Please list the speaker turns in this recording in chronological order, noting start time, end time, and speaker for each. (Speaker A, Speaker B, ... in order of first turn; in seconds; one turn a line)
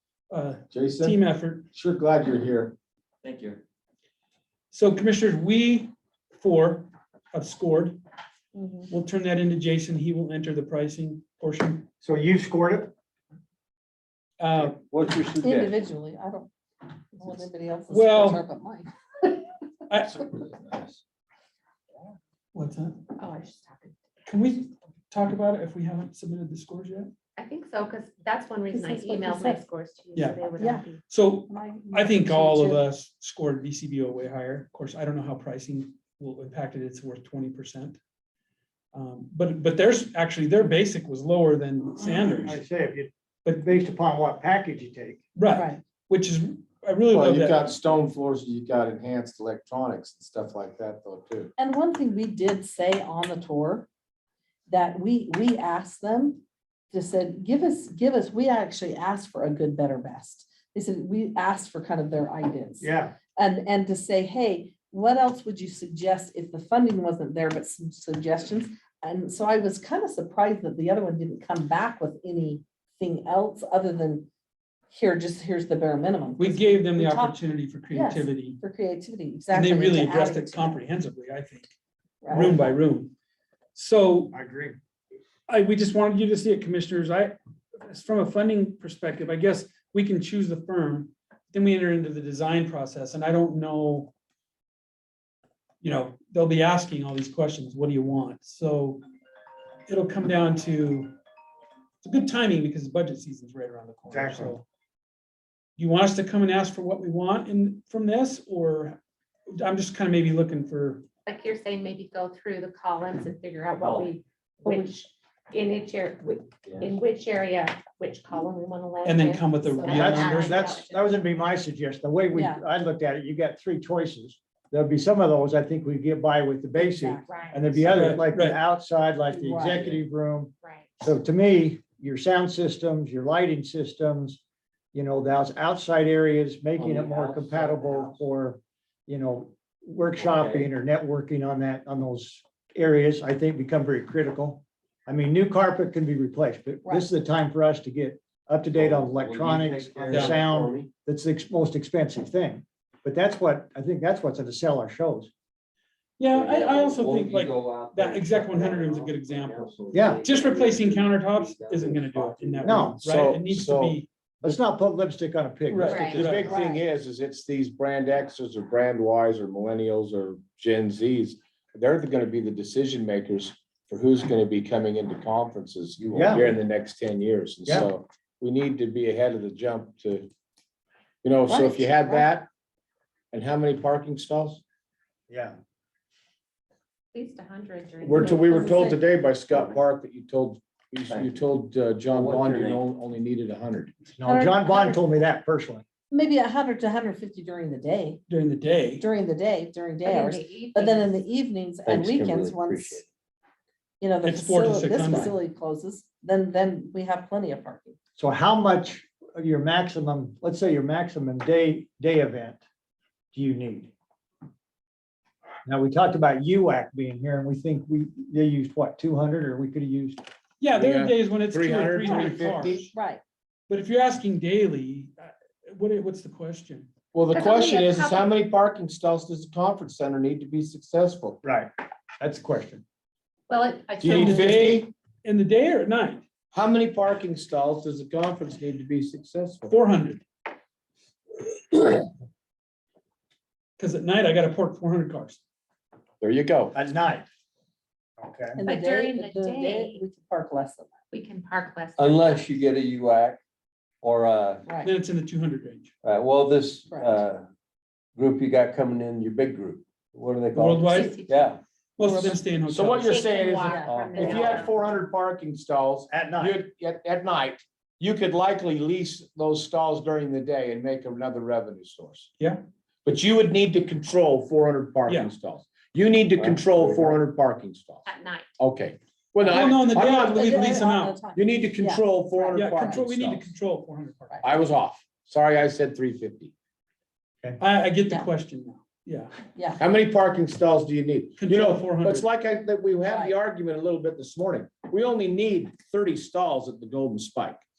Speaker A: 0.3-1.7
Speaker B: 0.7-1.2
Speaker B: 1.7-2.8
Speaker C: 3.2-3.6
Speaker A: 4.7-8.0
Speaker D: 8.5-8.9
Speaker A: 8.9-11.9
Speaker E: 12.0-12.9
Speaker A: 14.4-14.8
Speaker C: 14.6-15.8
Speaker D: 15.4-16.5
Speaker D: 17.1-18.9
Speaker A: 17.9-18.4
Speaker A: 19.9-20.3
Speaker A: 22.5-23.1
Speaker F: 23.1-23.9
Speaker A: 24.2-27.1
Speaker F: 27.4-31.0
Speaker D: 28.7-29.6
Speaker A: 30.1-30.4
Speaker D: 30.6-30.9
Speaker A: 31.1-38.0
Speaker D: 31.5-32.8
Speaker A: 38.9-42.6
Speaker E: 42.0-45.2
Speaker A: 45.4-47.7
Speaker D: 45.5-45.8
Speaker B: 47.1-51.5
Speaker D: 51.6-53.9
Speaker D: 54.7-74.3
Speaker E: 62.8-63.2
Speaker D: 74.9-77.4
Speaker A: 76.4-78.6
Speaker D: 77.9-80.8
Speaker A: 79.5-81.7
Speaker D: 82.2-82.8
Speaker A: 82.3-83.1
Speaker A: 83.8-84.3
Speaker E: 84.3-84.8
Speaker A: 85.5-94.1
Speaker A: 95.8-99.0
Speaker A: 99.9-101.1
Speaker A: 102.0-104.6
Speaker E: 104.1-104.6
Speaker A: 105.8-109.0
Speaker A: 109.5-111.0
Speaker F: 111.2-121.1
Speaker C: 113.8-114.1
Speaker A: 119.0-120.6
Speaker E: 119.9-134.4
Speaker D: 122.3-122.6
Speaker D: 126.8-127.3
Speaker F: 127.3-127.8
Speaker A: 127.9-128.6
Speaker D: 129.3-129.9
Speaker F: 130.6-131.0
Speaker E: 134.9-155.3
Speaker C: 136.8-138.1
Speaker C: 140.2-140.7
Speaker D: 146.8-147.1
Speaker C: 148.7-150.9
Speaker A: 150.1-150.4
Speaker A: 156.2-164.1
Speaker C: 156.3-162.9
Speaker E: 159.9-160.2
Speaker E: 162.6-163.0
Speaker B: 163.0-164.0
Speaker E: 164.4-166.5
Speaker A: 165.7-166.6
Speaker F: 165.8-166.8
Speaker B: 165.9-180.3
Speaker E: 176.1-176.5
Speaker B: 181.2-182.5
Speaker D: 181.5-182.2
Speaker B: 183.3-184.6
Speaker E: 185.3-185.6
Speaker F: 187.1-189.0
Speaker B: 188.0-193.9
Speaker D: 188.2-189.0
Speaker C: 191.1-191.4
Speaker C: 192.1-192.9
Speaker E: 194.2-195.8
Speaker D: 194.2-195.0
Speaker D: 196.1-198.2
Speaker A: 198.3-199.1
Speaker D: 199.0-203.1
Speaker F: 200.0-201.2
Speaker C: 201.8-203.0
Speaker D: 204.0-208.0
Speaker A: 204.2-205.4
Speaker E: 208.2-212.6
Speaker E: 213.3-213.9
Speaker E: 215.7-220.2
Speaker A: 220.6-222.9
Speaker B: 220.7-222.9
Speaker D: 222.0-222.4
Speaker D: 222.9-223.2
Speaker A: 223.7-226.9
Speaker B: 227.1-231.4
Speaker F: 227.3-228.3
Speaker E: 231.4-232.8
Speaker F: 233.5-234.5
Speaker B: 234.0-234.9
Speaker A: 234.0-236.2
Speaker B: 236.5-239.8
Speaker A: 239.7-240.2
Speaker A: 243.8-245.4
Speaker B: 246.2-246.7
Speaker E: 246.7-247.3
Speaker E: 248.2-248.6
Speaker D: 248.6-250.9
Speaker F: 248.7-250.0
Speaker F: 251.1-252.5
Speaker C: 252.0-253.4
Speaker C: 254.0-254.7
Speaker D: 254.7-254.9
Speaker A: 254.8-255.9
Speaker C: 256.0-257.4
Speaker D: 256.9-257.2
Speaker C: 258.1-261.6
Speaker A: 260.5-261.2
Speaker F: 260.9-261.5
Speaker A: 262.0-263.2
Speaker D: 262.0-262.4
Speaker B: 262.7-272.3
Speaker F: 263.0-264.8
Speaker D: 263.6-264.5
Speaker C: 263.8-264.7
Speaker E: 266.1-266.6
Speaker B: 273.0-283.5
Speaker A: 275.1-275.3
Speaker C: 276.4-277.2
Speaker F: 278.1-278.5
Speaker A: 279.4-281.2
Speaker D: 280.1-283.0
Speaker A: 282.5-284.5
Speaker D: 284.3-284.5
Speaker B: 284.4-286.5
Speaker A: 287.6-289.4
Speaker D: 289.5-289.8
Speaker B: 289.8-297.6
Speaker A: 291.4-292.3
Speaker D: 293.0-293.4